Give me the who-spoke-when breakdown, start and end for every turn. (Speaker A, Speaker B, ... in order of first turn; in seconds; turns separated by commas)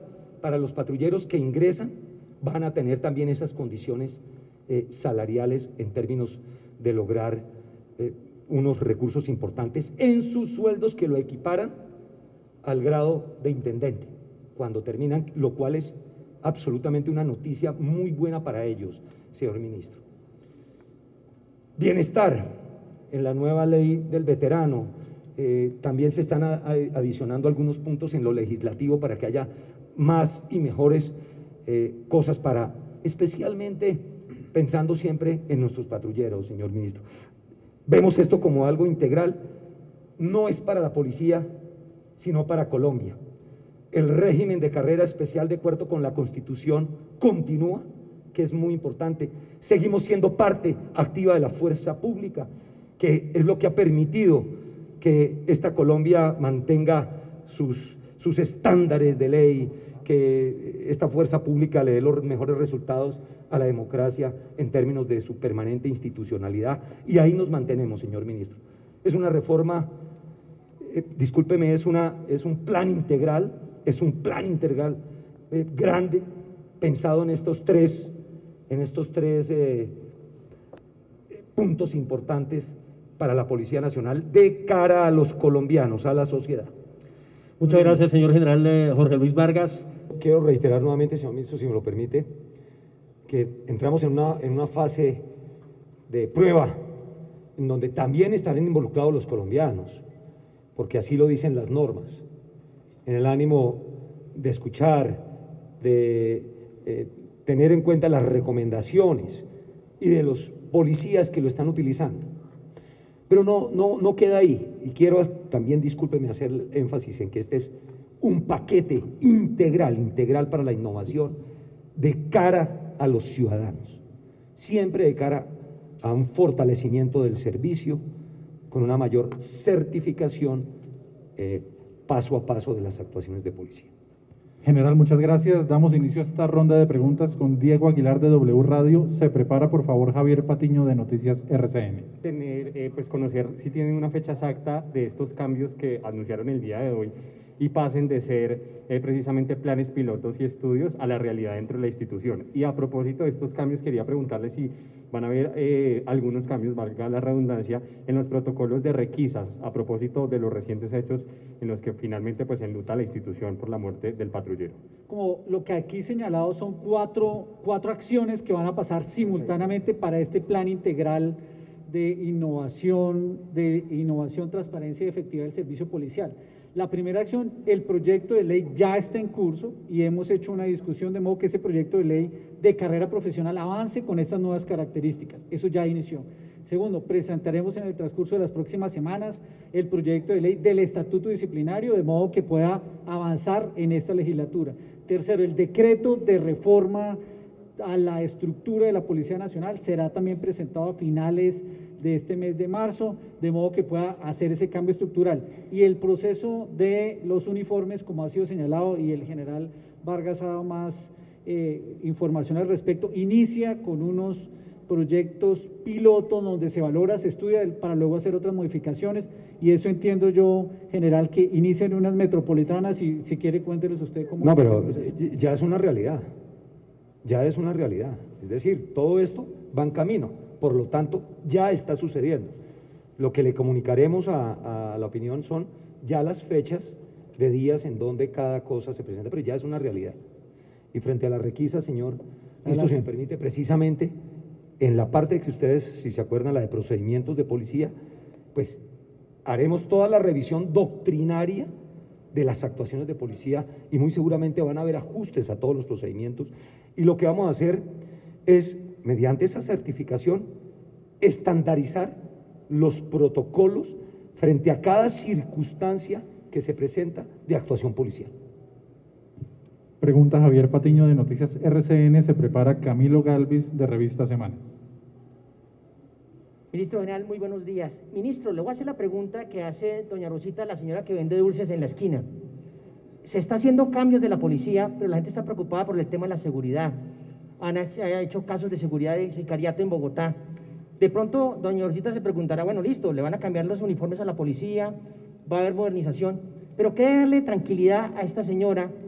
Speaker A: 0.4-11.8, Speaker A: 12.6-20.0, Speaker A: 21.8-22.6, Speaker A: 23.1-37.0, Speaker A: 37.9-39.4, Speaker A: 40.2-41.5, Speaker A: 42.2-43.2, Speaker A: 43.9-69.9, Speaker A: 70.8-75.0, Speaker A: 75.5-76.2, Speaker A: 76.8-78.2, Speaker A: 78.7-80.0, Speaker A: 81.3-86.7, Speaker B: 87.6-89.9, Speaker A: 90.1-92.3, Speaker A: 93.3-95.2, Speaker A: 96.1-96.8, Speaker A: 97.6-100.0, Speaker A: 100.7-102.2, Speaker A: 103.0-105.2, Speaker A: 105.8-109.5, Speaker A: 110.0-112.3, Speaker A: 113.3-121.4, Speaker A: 121.9-124.0, Speaker A: 124.5-128.0, Speaker A: 128.7-130.7, Speaker A: 131.4-133.9, Speaker C: 134.6-142.1, Speaker D: 142.2-164.8, Speaker E: 165.1-197.2, Speaker E: 197.8-225.1, Speaker A: 224.4-226.3, Speaker A: 227.2-232.5, Speaker A: 233.2-240.2, Speaker A: 240.9-244.1, Speaker E: 242.7-242.9, Speaker A: 244.8-247.9, Speaker A: 248.5-248.8, Speaker A: 249.4-251.7, Speaker A: 252.3-257.8, Speaker A: 258.4-260.5, Speaker A: 261.2-262.1, Speaker A: 262.7-268.3, Speaker C: 270.0-274.6, Speaker F: 276.7-282.2, Speaker F: 283.2-286.9, Speaker F: 287.6-290.4, Speaker F: 291.0-298.9